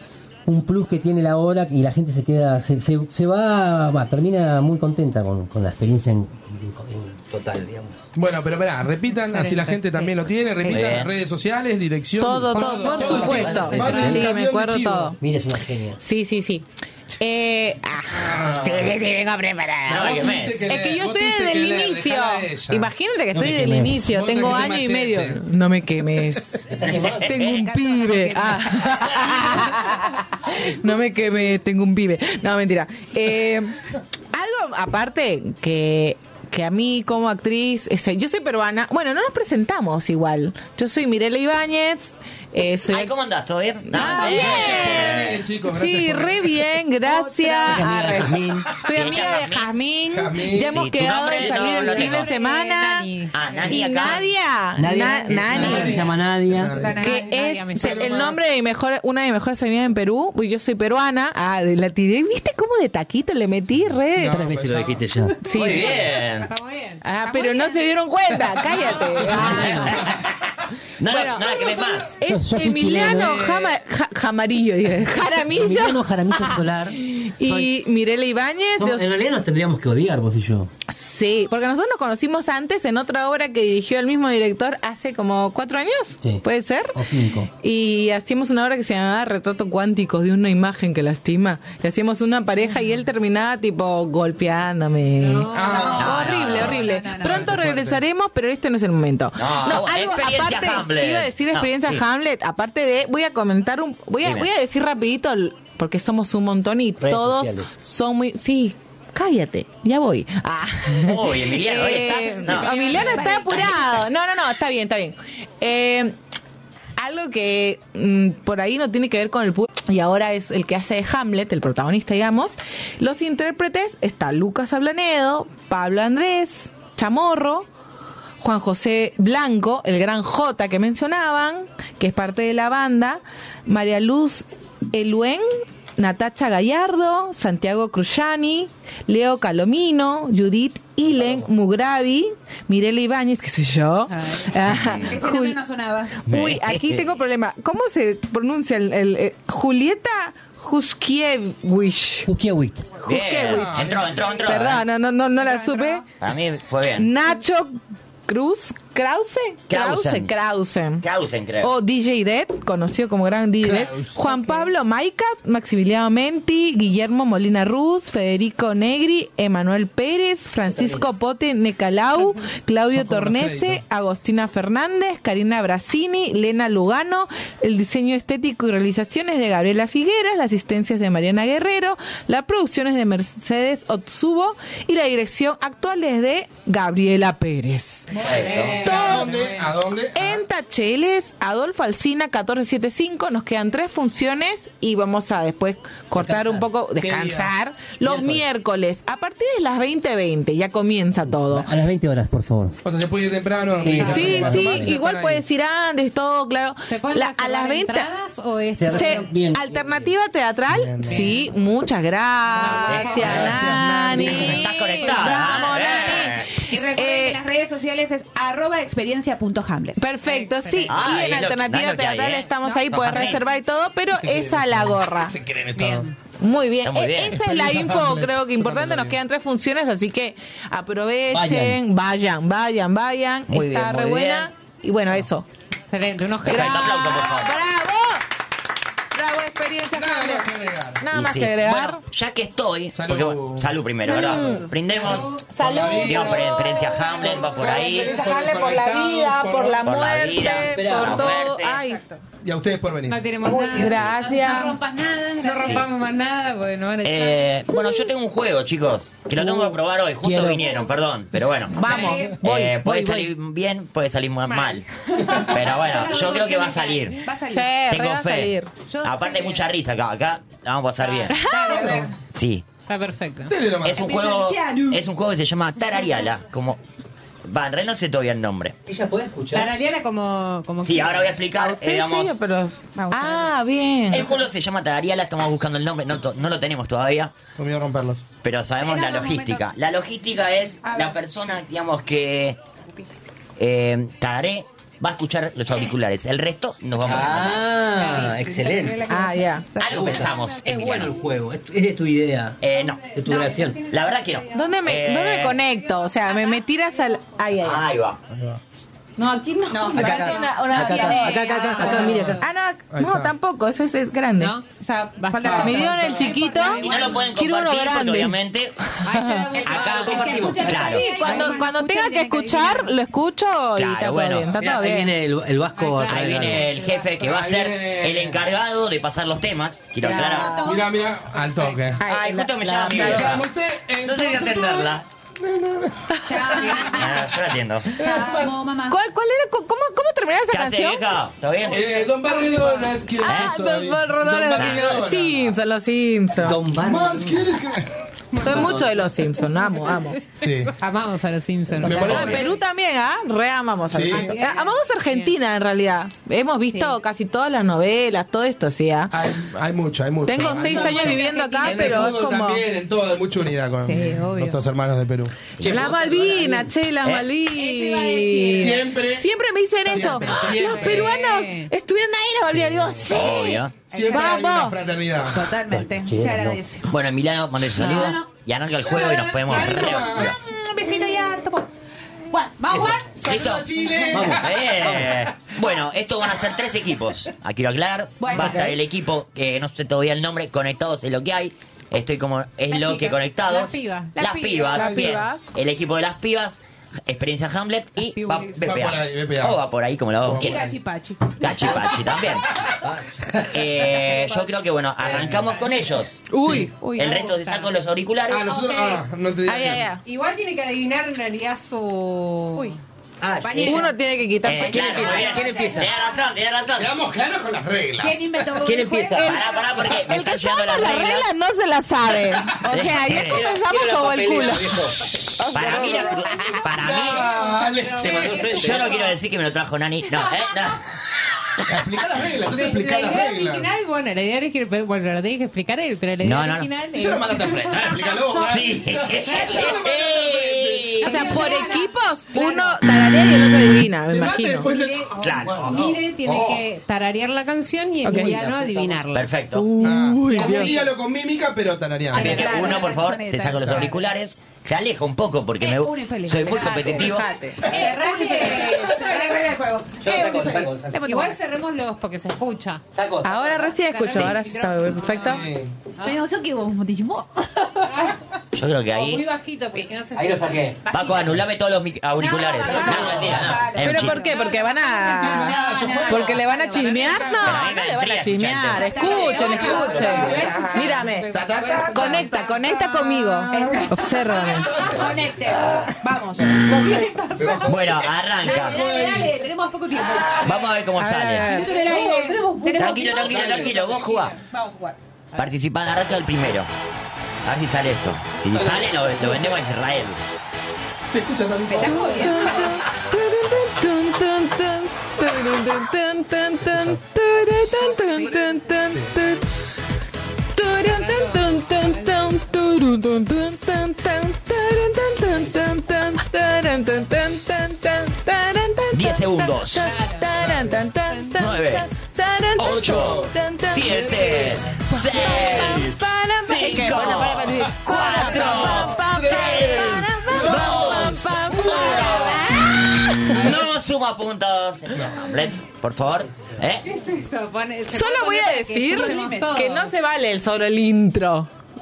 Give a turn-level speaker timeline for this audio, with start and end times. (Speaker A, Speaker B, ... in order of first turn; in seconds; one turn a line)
Speaker A: 0.5-8.0
Speaker B: 8.2-15.1
Speaker C: 9.3-10.1
Speaker D: 10.7-11.1
Speaker E: 12.2-15.2
Speaker C: 12.6-14.1
Speaker A: 13.1-14.4
Speaker A: 15.2-16.0
Speaker E: 16.0-16.7
Speaker E: 17.2-20.0
Speaker B: 18.1-18.9
Speaker D: 18.6-18.9
Speaker D: 19.9-20.7
Speaker B: 19.9-22.9
Speaker E: 20.7-33.8
Speaker A: 23.3-24.1
Speaker B: 23.4-25.4
Speaker A: 26.7-27.3
Speaker D: 27.2-27.6
Speaker F: 27.5-29.2
Speaker E: 34.3-43.1
Speaker D: 42.9-45.4
Speaker E: 43.9-45.2
Speaker B: 44.0-46.6
Speaker E: 45.7-53.1
Speaker A: 47.7-48.8
Speaker D: 48.8-49.7
Speaker B: 50.1-50.8
Speaker D: 50.7-52.3
Speaker C: 51.6-54.2
Speaker D: 53.3-54.2
Speaker E: 53.7-56.0
Speaker A: 54.8-56.7
Speaker B: 55.5-57.2
Speaker C: 55.6-56.0
Speaker F: 56.8-57.2
Speaker C: 56.8-58.2
Speaker E: 57.0-64.4
Speaker B: 57.7-58.4
Speaker B: 64.2-65.1
Speaker A: 64.2-65.4
Speaker E: 65.4-66.0
Speaker D: 65.5-66.5
Speaker B: 65.6-65.8
Speaker C: 66.5-67.7
Speaker E: 67.0-70.1
Speaker A: 69.2-70.0
Speaker D: 71.0-72.2
Speaker E: 71.0-79.1
Speaker A: 72.2-73.6
Speaker B: 73.2-73.6
Speaker A: 75.5-77.7
Speaker A: 78.8-80.7
Speaker E: 80.9-87.0
Speaker A: 86.2-87.5
Speaker E: 87.6-116.2
Speaker C: 95.2-96.0
Speaker B: 95.5-98.0
Speaker F: 95.6-96.2
Speaker D: 96.0-96.8
Speaker F: 96.8-97.5
Speaker D: 99.4-102.0
Speaker D: 104.2-104.5
Speaker A: 107.0-107.7
Speaker D: 111.0-113.9
Speaker C: 112.3-113.7
Speaker E: 117.0-127.7
Speaker E: 128.4-145.6
Speaker A: 141.2-141.5
Speaker D: 144.7-145.0
Speaker F: 145.1-146.2
Speaker E: 146.2-152.3
Speaker D: 146.3-147.1
Speaker A: 152.3-152.9
Speaker E: 153.0-156.1
Speaker D: 153.0-154.8
Speaker B: 153.4-154.4
Speaker F: 155.5-155.9
Speaker D: 156.2-157.1
Speaker E: 157.0-157.8
Speaker E: 158.3-161.0
Speaker D: 159.7-160.3
Speaker D: 161.0-161.7
Speaker E: 161.6-189.4
Speaker B: 163.6-164.5
Speaker A: 170.7-171.1
Speaker B: 172.9-173.8
Speaker C: 188.2-189.7
Speaker D: 188.2-188.8
Speaker B: 188.8-190.4
Speaker E: 190.1-201.7
Speaker A: 196.2-196.7
Speaker B: 197.0-197.5
Speaker A: 198.0-198.4
Speaker A: 201.3-202.8
Speaker B: 202.8-205.4
Speaker A: 203.8-205.0
Speaker C: 204.0-204.4
Speaker E: 204.0-208.1
Speaker C: 206.8-209.3
Speaker A: 208.8-210.1
Speaker E: 208.9-217.4
Speaker B: 210.7-211.3
Speaker C: 211.0-211.5
Speaker C: 212.6-213.8
Speaker D: 212.8-213.5
Speaker B: 213.2-214.6
Speaker D: 214.1-216.7
Speaker F: 216.6-220.0
Speaker E: 220.0-225.3
Speaker C: 220.2-221.0
Speaker D: 220.9-223.4
Speaker B: 224.1-226.1
Speaker C: 225.8-226.1
Speaker E: 226.4-235.5
Speaker D: 226.8-227.4
Speaker B: 227.3-229.2
Speaker A: 231.3-231.8
Speaker D: 233.5-234.5
Speaker C: 235.9-237.0
Speaker E: 236.5-238.2
Speaker D: 236.5-237.6
Speaker E: 239.2-240.5
Speaker B: 239.9-241.0
Speaker E: 241.0-242.0
Speaker D: 241.1-245.4
Speaker B: 242.9-244.4
Speaker E: 244.1-252.1
Speaker C: 245.0-245.4
Speaker B: 245.0-249.9
Speaker D: 245.9-248.2
Speaker D: 249.8-251.8
Speaker A: 250.7-251.4
Speaker B: 252.4-253.3
Speaker C: 253.1-254.7
Speaker F: 253.4-255.8
Speaker E: 253.5-254.8
Speaker C: 255.4-257.8
Speaker D: 257.0-264.9
Speaker A: 259.3-260.6
Speaker E: 261.7-263.3
Speaker F: 261.8-262.4
Speaker C: 264.5-266.6
Speaker D: 265.4-267.2
Speaker F: 265.7-267.8
Speaker E: 267.5-268.7
Speaker D: 267.9-271.4
Speaker F: 268.9-269.6
Speaker F: 271.0-272.1
Speaker E: 271.3-271.9
Speaker B: 271.7-272.1
Speaker D: 272.3-272.6
Speaker C: 272.9-273.6
Speaker B: 273.5-274.1
Speaker D: 273.8-276.8
Speaker F: 274.0-275.0
Speaker D: 277.4-278.8
Speaker A: 278.9-279.8
Speaker C: 279.5-281.4
Speaker D: 280.8-282.4
Speaker E: 281.5-284.3
Speaker F: 282.9-283.5
Speaker D: 284.1-287.3
Speaker B: 287.6-288.2
Speaker D: 288.4-292.6
Speaker F: 288.8-289.6
Speaker F: 290.8-291.2
Speaker D: 293.6-297.6
Speaker A: 297.0-299.0
Speaker C: 298.0-298.9
Speaker F: 298.1-298.8
Speaker E: 299.1-299.7
Speaker D: 299.8-301.2
Speaker A: 299.9-302.6
Speaker D: 302.6-303.2
Speaker C: 302.8-303.5
Speaker A: 303.1-303.8
Speaker F: 303.3-304.1
Speaker D: 303.9-305.6
Speaker E: 304.5-307.8
Speaker D: 307.6-308.2
Speaker B: 308.3-308.6
Speaker E: 309.2-314.6
Speaker F: 309.7-312.0
Speaker A: 309.9-312.4
Speaker C: 311.9-312.3
Speaker B: 312.1-312.4
Speaker B: 312.9-313.3
Speaker C: 314.4-317.2
Speaker F: 315.1-317.2
Speaker E: 315.3-318.4
Speaker B: 315.4-316.0
Speaker D: 316.8-318.8
Speaker C: 319.0-321.6
Speaker E: 319.1-319.9
Speaker F: 319.6-322.9
Speaker D: 319.6-321.1
Speaker A: 320.1-321.0
Speaker E: 321.0-325.1
Speaker D: 323.8-324.5
Speaker A: 324.5-326.7
Speaker C: 325.8-327.0
Speaker D: 326.1-330.6
Speaker B: 327.2-328.4
Speaker E: 330.0-330.7
Speaker F: 330.1-331.0
Speaker B: 330.6-332.0
Speaker C: 331.7-331.9
Speaker E: 332.0-333.3
Speaker D: 332.1-335.1
Speaker B: 332.9-336.8
Speaker F: 336.3-337.3
Speaker D: 336.9-338.0
Speaker F: 338.0-339.0
Speaker B: 338.0-338.6
Speaker E: 338.9-341.1
Speaker D: 340.5-342.1
Speaker B: 341.7-345.5
Speaker E: 343.2-346.6
Speaker D: 343.2-343.6
Speaker D: 344.6-345.0
Speaker A: 346.4-347.4
Speaker B: 346.5-348.6
Speaker E: 348.4-350.2
Speaker A: 348.4-349.1
Speaker B: 350.4-350.7
Speaker C: 350.8-352.4
Speaker B: 351.8-352.5
Speaker E: 352.0-359.1
Speaker B: 353.9-354.4
Speaker C: 354.1-355.3
Speaker F: 354.2-354.6
Speaker B: 359.1-366.5
Speaker E: 360.3-362.6
Speaker F: 360.4-362.1
Speaker F: 363.9-364.4
Speaker C: 363.9-364.6
Speaker D: 365.6-365.9
Speaker E: 365.6-374.8
Speaker F: 366.1-366.4
Speaker F: 367.5-368.8
Speaker B: 368.5-369.3
Speaker B: 369.9-371.1
Speaker C: 370.4-371.7
Speaker A: 372.5-372.9
Speaker D: 373.1-373.8
Speaker B: 373.9-375.6
Speaker F: 375.2-376.9
Speaker A: 375.7-376.6
Speaker D: 376.9-380.4
Speaker F: 377.7-378.3
Speaker B: 378.9-380.4
Speaker F: 379.1-381.7
Speaker F: 382.3-383.1
Speaker A: 382.7-383.0
Speaker B: 383.2-385.2
Speaker D: 383.2-400.7
Speaker A: 384.1-385.0
Speaker F: 388.2-388.7
Speaker F: 392.7-393.1
Speaker C: 392.7-394.1
Speaker F: 394.2-394.9
Speaker E: 394.7-395.4
Speaker B: 394.8-395.1
Speaker F: 398.2-398.5
Speaker B: 398.5-399.6
Speaker B: 400.2-400.7
Speaker F: 400.3-401.9
Speaker D: 401.4-402.6
Speaker D: 403.5-406.3
Speaker F: 404.2-404.5
Speaker E: 406.3-406.9
Speaker C: 406.8-407.3
Speaker F: 406.8-407.5
Speaker D: 406.9-408.5
Speaker B: 408.3-409.9
Speaker C: 408.5-409.0
Speaker E: 409.4-410.0
Speaker C: 410.1-412.8
Speaker A: 413.2-413.9
Speaker F: 413.4-414.0
Speaker E: 413.6-415.7
Speaker D: 414.4-416.9
Speaker F: 414.6-415.7
Speaker A: 415.2-415.9
Speaker B: 416.8-418.4
Speaker F: 418.0-419.6
Speaker A: 418.6-419.4
Speaker D: 419.2-421.3
Speaker E: 419.2-424.9
Speaker D: 422.6-423.5
Speaker A: 423.1-425.0
Speaker E: 425.4-426.6
Speaker D: 425.5-427.3
Speaker B: 426.7-428.9
Speaker C: 427.3-429.0
Speaker A: 428.0-429.1
Speaker D: 428.2-430.8
Speaker B: 431.7-433.7
Speaker C: 432.4-438.6
Speaker D: 436.2-436.7
Speaker B: 436.9-441.4
Speaker D: 438.4-441.3
Speaker E: 441.0-444.7
Speaker F: 441.1-441.9
Speaker C: 441.1-442.7
Speaker B: 444.1-446.7
Speaker C: 444.6-449.4
Speaker D: 445.2-445.8
Speaker E: 448.0-448.4
Speaker A: 448.1-449.0
Speaker D: 449.1-449.7
Speaker E: 449.5-450.9
Speaker B: 449.8-452.5
Speaker C: 450.3-450.9
Speaker F: 452.1-454.0
Speaker E: 452.2-452.9
Speaker D: 452.2-457.3
Speaker F: 455.6-461.4
Speaker E: 456.9-458.0
Speaker B: 457.6-457.9
Speaker C: 457.7-459.1
Speaker A: 460.0-461.1
Speaker C: 460.1-462.8
Speaker A: 462.9-463.7
Speaker E: 463.2-465.4
Speaker C: 463.7-465.4
Speaker B: 465.1-465.7
Speaker F: 466.0-467.6
Speaker C: 467.9-468.2
Speaker D: 468.5-469.3
Speaker C: 468.9-471.2
Speaker A: 470.1-470.9
Speaker D: 470.9-474.2
Speaker F: 472.2-476.7
Speaker B: 472.7-473.6
Speaker A: 472.7-473.6
Speaker E: 473.8-481.3
Speaker C: 474.3-474.6
Speaker B: 474.9-477.7
Speaker C: 476.3-477.2
Speaker D: 477.4-478.9
Speaker F: 478.8-481.0
Speaker C: 478.9-479.2
Speaker B: 479.4-482.3
Speaker A: 479.6-480.5
Speaker C: 480.0-483.9
Speaker E: 481.9-484.9
Speaker F: 483.5-483.9
Speaker B: 483.5-483.9
Speaker B: 484.5-485.9
Speaker F: 484.6-487.8
Speaker B: 486.7-489.4
Speaker D: 487.6-488.8
Speaker F: 488.4-490.7
Speaker D: 490.4-491.5
Speaker E: 491.0-491.8
Speaker F: 491.4-495.0
Speaker A: 491.9-492.9
Speaker D: 492.8-494.4
Speaker B: 493.2-493.8
Speaker D: 495.4-496.7
Speaker D: 497.4-500.2
Speaker B: 498.5-499.4
Speaker B: 501.1-502.6
Speaker F: 501.7-502.8
Speaker E: 501.9-509.4
Speaker B: 506.7-507.0
Speaker E: 510.6-533.6
Speaker C: 510.8-512.2
Speaker D: 518.9-519.9
Speaker C: 519.8-520.3
Speaker B: 520.4-520.7
Speaker D: 521.4-521.9
Speaker D: 522.6-532.5
Speaker B: 522.6-523.3
Speaker B: 525.4-525.8
Speaker B: 527.7-532.4
Speaker D: 533.2-536.9
Speaker C: 536.9-539.9
Speaker E: 537.9-541.5
Speaker F: 538.9-539.9